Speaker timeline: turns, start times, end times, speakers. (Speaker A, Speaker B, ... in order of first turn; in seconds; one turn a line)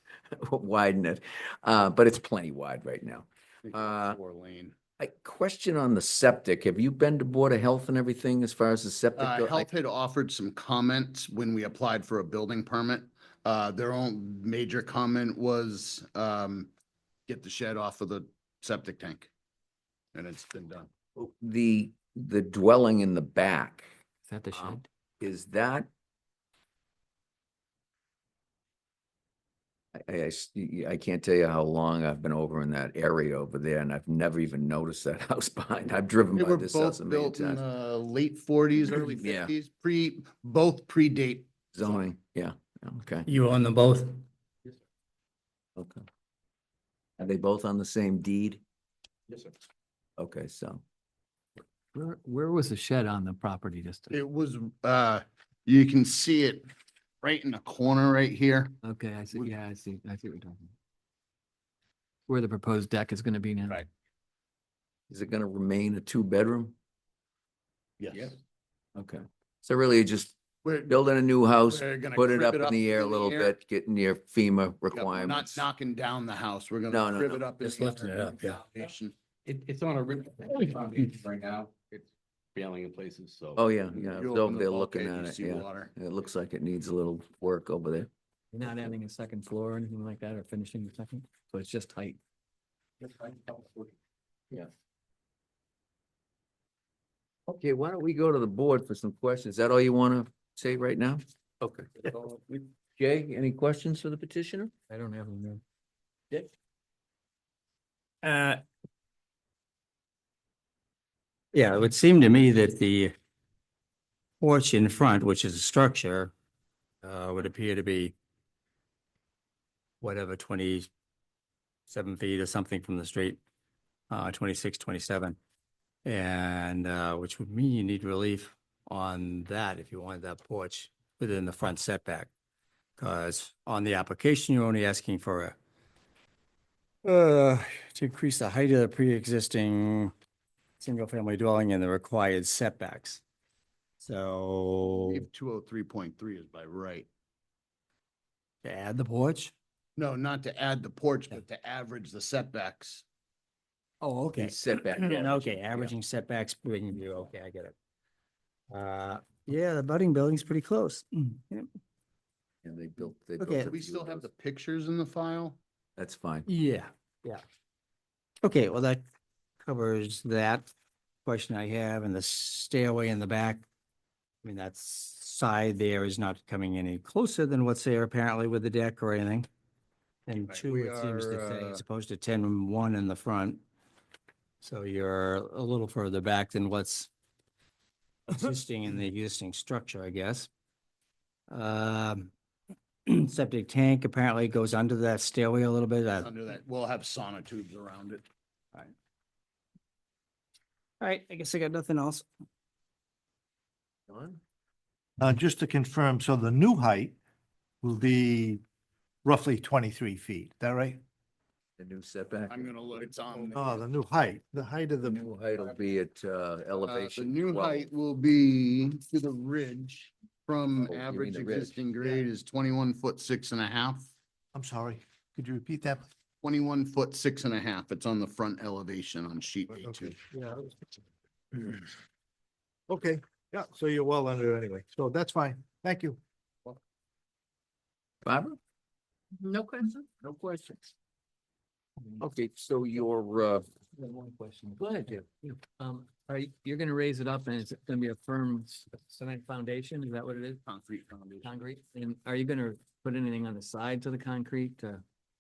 Speaker A: 0.4-4.2
Speaker B: 3.6-4.7
Speaker A: 5.0-9.7
Speaker B: 9.2-16.7
Speaker B: 17.3-19.3
Speaker B: 20.1-20.9
Speaker A: 21.2-23.9
Speaker C: 24.3-24.9
Speaker A: 24.5-25.9
Speaker A: 30.0-37.6
Speaker B: 36.3-42.0
Speaker A: 39.2-39.5
Speaker A: 41.7-43.3
Speaker D: 43.3-44.2
Speaker A: 45.8-46.0
Speaker A: 47.2-48.6
Speaker A: 50.2-50.8
Speaker C: 51.9-54.2
Speaker B: 54.1-56.7
Speaker B: 57.2-58.7
Speaker C: 58.8-60.7
Speaker C: 62.3-63.8
Speaker A: 65.1-66.8
Speaker B: 68.0-68.3
Speaker A: 69.0-70.3
Speaker B: 70.6-71.0
Speaker A: 70.9-75.7
Speaker B: 71.6-73.5
Speaker B: 74.9-79.1
Speaker A: 76.9-77.5
Speaker E: 79.5-83.7
Speaker A: 83.6-88.1
Speaker B: 84.2-85.9
Speaker C: 88.5-92.2
Speaker A: 97.5-104.7
Speaker C: 104.9-105.6
Speaker D: 108.2-108.6
Speaker D: 111.5-113.1
Speaker D: 114.4-116.3
Speaker D: 117.0-118.1
Speaker D: 120.0-120.9
Speaker D: 121.9-123.4
Speaker D: 124.1-125.4
Speaker D: 126.0-132.3
Speaker D: 133.0-135.6
Speaker D: 137.0-140.1
Speaker D: 140.8-143.2
Speaker D: 144.0-145.3
Speaker B: 144.9-147.1
Speaker D: 148.6-149.5
Speaker B: 150.0-153.0
Speaker D: 154.0-157.7
Speaker A: 154.3-155.9
Speaker D: 158.7-161.7
Speaker A: 162.6-164.3
Speaker D: 163.4-163.7
Speaker B: 163.6-165.6
Speaker A: 166.0-166.5
Speaker D: 166.5-167.4
Speaker D: 168.4-169.1
Speaker D: 169.6-170.7
Speaker D: 171.2-173.7
Speaker D: 174.4-179.5
Speaker D: 180.3-183.6
Speaker B: 180.6-181.8
Speaker D: 184.6-187.1
Speaker D: 188.3-190.5
Speaker D: 191.5-192.3
Speaker D: 193.1-196.3
Speaker B: 196.2-198.2
Speaker D: 201.0-202.3
Speaker A: 204.1-204.4
Speaker F: 205.2-207.2
Speaker F: 207.8-208.6
Speaker F: 209.2-211.0
Speaker A: 211.8-212.8
Speaker B: 212.5-213.8
Speaker F: 213.5-215.2
Speaker A: 215.0-217.9
Speaker B: 216.8-224.1
Speaker A: 220.9-221.8
Speaker F: 224.5-226.1
Speaker B: 226.4-230.2
Speaker F: 229.7-230.9
Speaker F: 231.5-231.9
Speaker F: 232.9-236.2
Speaker A: 238.2-238.6
Speaker A: 239.4-240.9
Speaker A: 242.2-243.7
Speaker C: 243.9-250.6
Speaker A: 244.8-245.2
Speaker B: 250.7-251.6
Speaker C: 251.4-255.0